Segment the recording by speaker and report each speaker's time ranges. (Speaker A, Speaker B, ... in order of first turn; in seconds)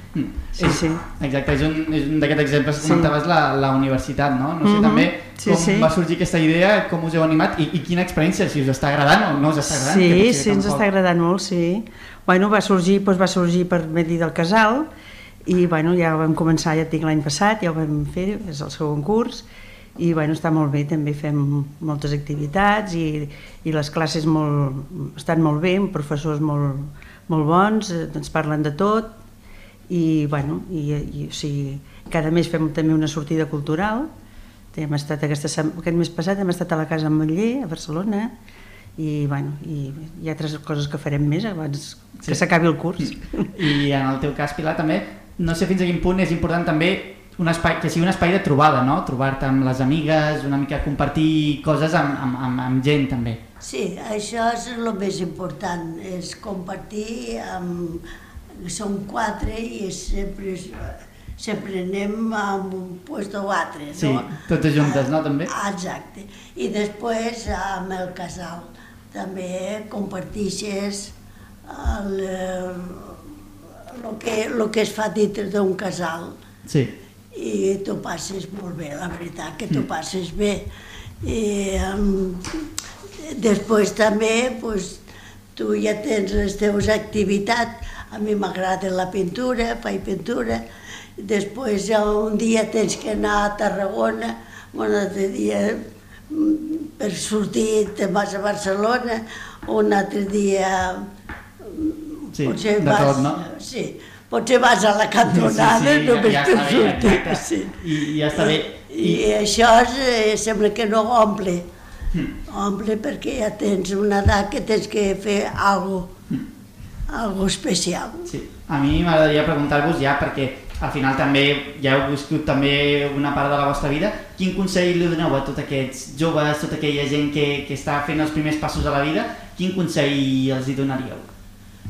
Speaker A: 0.1-10.8, 43.0-53.4, 63.9-65.5, 76.7-76.9, 102.3-103.4, 105.3-109.2, 118.2-131.3
Speaker B: 0.5-1.0, 2.8-3.1, 4.6-5.9, 9.7-14.9, 15.4-29.2, 29.9-34.1, 34.7-38.4, 39.0-43.5
Speaker C: 53.6-58.0, 58.6-60.7, 61.4-71.1, 71.7-72.9, 74.0-76.3, 77.3-80.6, 81.2-82.4, 83.4-85.0, 85.5-90.6, 91.2-95.8, 96.3-100.9, 102.4-107.7, 108.3-111.7, 112.5-116.1, 117.1-118.2